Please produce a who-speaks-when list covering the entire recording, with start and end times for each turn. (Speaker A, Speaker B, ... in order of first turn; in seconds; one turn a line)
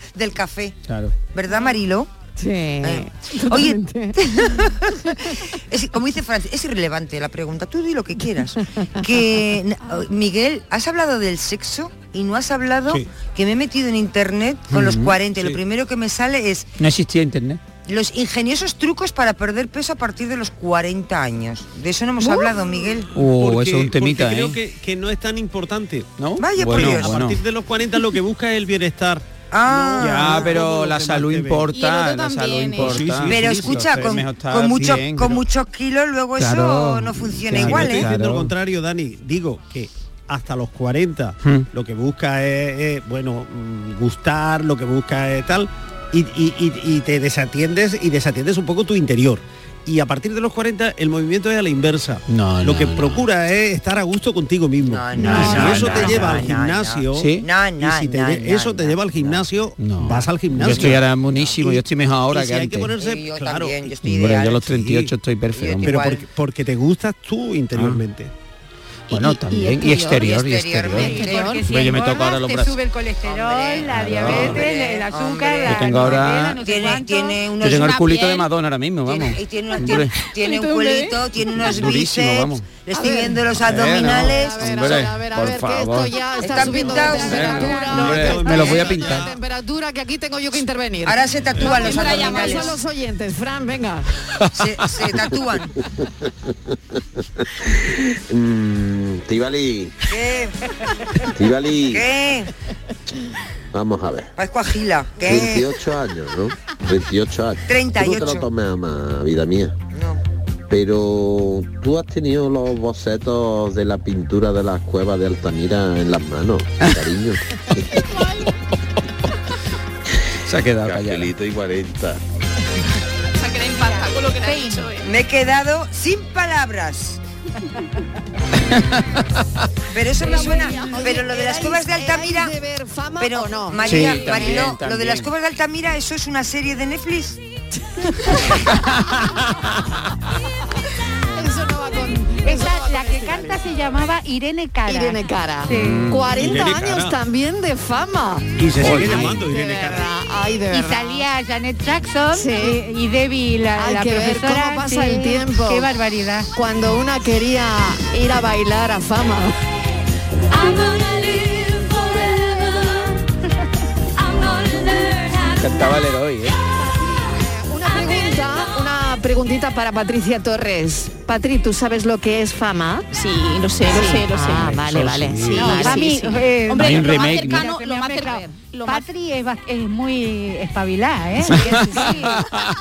Speaker A: 0.1-0.8
Speaker B: 0.9-1.1
Speaker A: 1.3-2.1
Speaker C: 2.4-4.2
Speaker A: 2.8-16.6
Speaker C: 5.0-5.4
Speaker C: 8.6-9.1
Speaker B: 14.7-15.2
Speaker B: 16.8-17.6
Speaker A: 17.9-23.1
Speaker B: 23.1-24.6
Speaker D: 23.2-31.7
Speaker B: 26.2-27.4
Speaker A: 26.4-27.2
Speaker A: 29.5-30.6
Speaker B: 30.0-35.3
Speaker E: 31.7-33.0
Speaker D: 32.7-35.4
Speaker A: 33.1-38.1
Speaker B: 36.4-38.5
Speaker D: 37.6-63.9
Speaker B: 52.3-53.2
Speaker A: 54.9-59.4
Speaker B: 55.1-56.5
Speaker B: 57.1-57.5
Speaker B: 59.8-62.9
Speaker A: 63.0-64.6
Speaker B: 64.0-66.0
Speaker D: 64.6-65.1
Speaker A: 65.5-66.2
Speaker D: 65.8-68.3
Speaker B: 67.7-68.0
Speaker B: 69.1-72.7
Speaker A: 69.1-71.6
Speaker C: 71.0-71.6
Speaker F: 71.0-77.4
Speaker A: 73.3-78.5
Speaker B: 73.9-74.6
Speaker B: 75.7-76.6
Speaker B: 77.6-80.2
Speaker A: 79.1-85.1
Speaker E: 80.4-81.2
Speaker B: 81.6-82.6
Speaker C: 83.0-83.2
Speaker B: 83.5-89.3
Speaker C: 83.8-94.1
Speaker A: 86.4-88.3
Speaker D: 87.7-89.4
Speaker A: 91.0-92.8
Speaker E: 91.6-92.8
Speaker A: 94.5-95.7
Speaker G: 98.3-99.9
Speaker A: 100.1-100.7
Speaker G: 101.4-102.0
Speaker A: 101.9-102.5
Speaker G: 103.7-104.3
Speaker A: 104.4-105.7
Speaker G: 105.2-109.7
Speaker A: 107.7-108.5
Speaker A: 109.9-110.2
Speaker G: 110.7-117.8
Speaker B: 116.8-117.1
Speaker B: 120.5-121.3
Speaker G: 120.8-122.2
Speaker E: 123.4-125.1
Speaker F: 123.9-124.8
Speaker A: 125.0-127.2
Speaker B: 128.7-129.0
Speaker A: 129.9-132.6
Speaker E: 130.2-131.0
Speaker C: 130.7-134.6
Speaker A: 133.2-137.4
Speaker B: 133.8-135.3
Speaker C: 138.0-138.7
Speaker C: 141.3-143.6
Speaker F: 142.4-146.0
Speaker C: 144.8-148.6
Speaker B: 145.7-146.4
Speaker D: 146.3-147.2
Speaker D: 148.6-150.1
Speaker B: 148.8-149.5
Speaker C: 149.1-151.2
Speaker F: 150.7-156.5
Speaker C: 152.3-152.8
Speaker C: 153.8-155.9
Speaker C: 156.5-159.6
Speaker B: 165.6-166.6
Speaker C: 167.6-173.1
Speaker E: 173.1-179.1
Speaker C: 173.9-176.4
Speaker D: 174.6-175.5
Speaker B: 175.0-175.2
Speaker F: 175.6-182.3
Speaker B: 176.7-177.7
Speaker B: 181.5-182.6
Speaker C: 181.5-182.4